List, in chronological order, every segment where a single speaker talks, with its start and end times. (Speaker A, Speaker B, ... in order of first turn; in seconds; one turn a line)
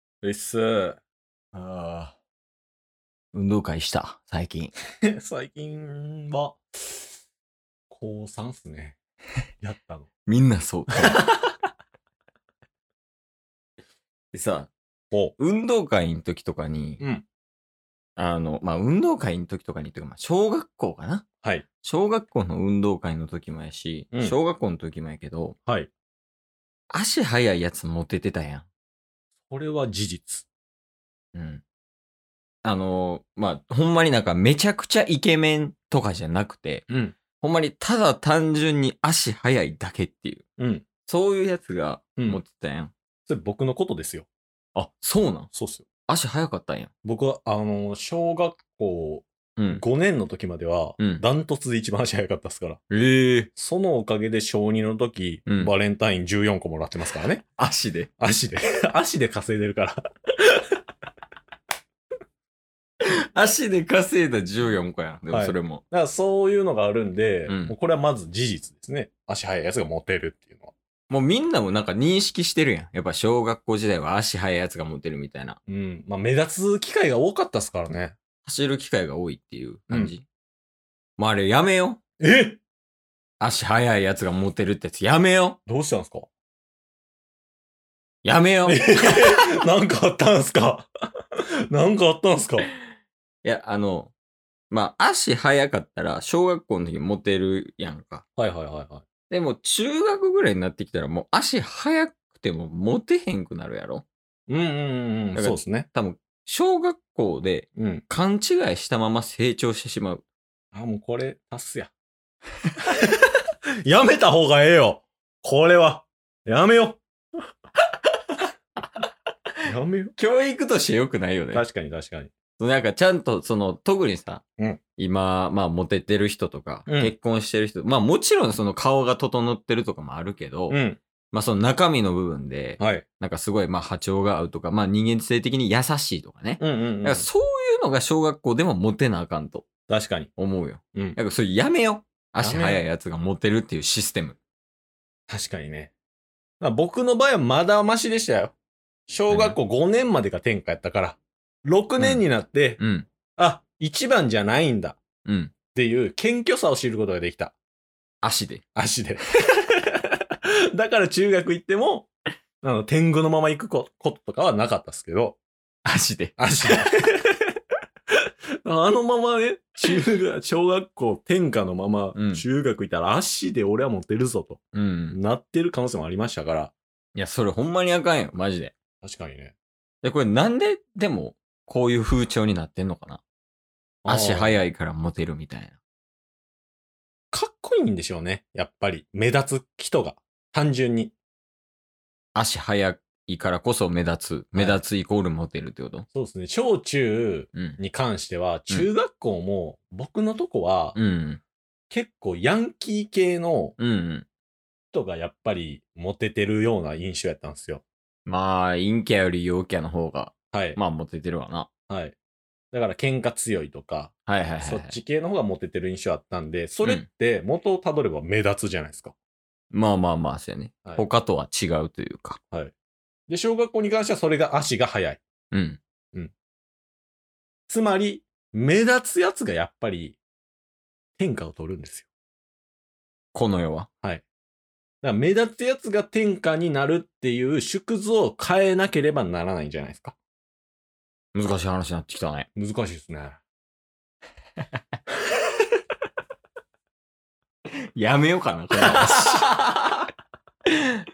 Speaker A: 0.2-1.0
Speaker B: 1.5-2.1
Speaker B: 3.3-4.7
Speaker A: 5.0-7.1
Speaker A: 7.9-9.0
Speaker A: 9.6-10.1
Speaker B: 10.2-11.5
Speaker B: 14.3-14.7
Speaker B: 15.4-17.0
Speaker A: 17.0-17.2
Speaker B: 18.2-21.2
Speaker B: 21.8-25.6
Speaker A: 24.1-24.4
Speaker B: 26.9-28.6
Speaker A: 29.5-30.5
Speaker B: 31.3-31.6
Speaker B: 32.6-40.4
Speaker A: 36.9-37.2
Speaker A: 40.6-40.9
Speaker B: 41.0-42.9
Speaker A: 43.3-44.3
Speaker B: 44.7-45.5
Speaker A: 45.5-45.9
Speaker B: 46.1-46.9
Speaker A: 47.0-52.8
Speaker B: 49.6-49.8
Speaker B: 52.9-53.5
Speaker A: 53.5-57.4
Speaker B: 55.5-55.7
Speaker B: 57.6-58.1
Speaker A: 58.2-60.6
Speaker B: 63.0-65.8
Speaker A: 65.3-70.7
Speaker B: 67.5-67.7
Speaker B: 71.1-75.6
Speaker A: 75.7-78.2
Speaker B: 78.4-80.2
Speaker B: 81.2-82.0
Speaker A: 82.2-82.6
Speaker B: 83.4-85.6
Speaker A: 85.7-86.3
Speaker B: 88.2-89.4
Speaker A: 88.7-90.9
Speaker A: 91.7-92.7
Speaker B: 93.4-94.1
Speaker B: 94.7-98.2
Speaker A: 98.4-99.0
Speaker B: 99.3-104.0
Speaker A: 104.5-105.9
Speaker B: 105.3-110.2
Speaker A: 107.8-108.0
Speaker A: 110.7-111.9
Speaker A: 113.8-117.0
Speaker A: 119.6-120.2
Speaker B: 120.2-121.6
Speaker A: 121.5-122.3
Speaker B: 122.6-124.4
Speaker B: 125.0-130.8
Speaker A: 126.9-127.1
Speaker A: 130.7-131.0
Speaker B: 131.3-139.7
Speaker A: 132.8-133.1
Speaker A: 136.6-137.3
Speaker A: 139.9-140.3
Speaker B: 140.4-144.4
Speaker A: 142.4-142.8
Speaker A: 145.3-145.9
Speaker A: 146.6-148.5
Speaker A: 149.1-152.8
Speaker B: 149.3-149.6
Speaker B: 152.0-152.2
Speaker B: 152.8-153.1
Speaker A: 153.4-155.0
Speaker B: 155.2-155.5
Speaker A: 155.7-157.5
Speaker B: 158.2-158.6
Speaker A: 158.8-159.9
Speaker A: 160.7-162.1
Speaker A: 162.6-165.4
Speaker B: 165.8-166.3
Speaker A: 166.4-167.4
Speaker A: 168.6-176.7
Speaker B: 172.1-172.4
Speaker B: 174.7-175.2
Speaker B: 177.1-178.7
Speaker A: 179.0-179.5
Speaker B: 180.0-183.2
Speaker A: 184.0-184.6
Speaker B: 184.1-185.8
Speaker A: 187.3-191.1
Speaker B: 192.3-196.1
Speaker A: 194.5-194.8
Speaker A: 196.1-201.0
Speaker B: 200.9-201.4
Speaker A: 201.9-203.8
Speaker B: 203.8-204.3
Speaker A: 204.9-207.8
Speaker B: 208.2-211.7
Speaker A: 210.5-210.8
Speaker A: 211.9-212.1
Speaker A: 212.7-219.1
Speaker B: 214.3-214.9
Speaker B: 219.7-222.4
Speaker A: 223.3-225.2
Speaker B: 225.5-225.8
Speaker A: 227.7-230.2
Speaker A: 231.2-232.1
Speaker B: 233.3-233.9
Speaker A: 235.0-240.2
Speaker B: 241.3-242.5
Speaker A: 242.6-243.4
Speaker B: 247.9-250.1
Speaker A: 249.1-249.4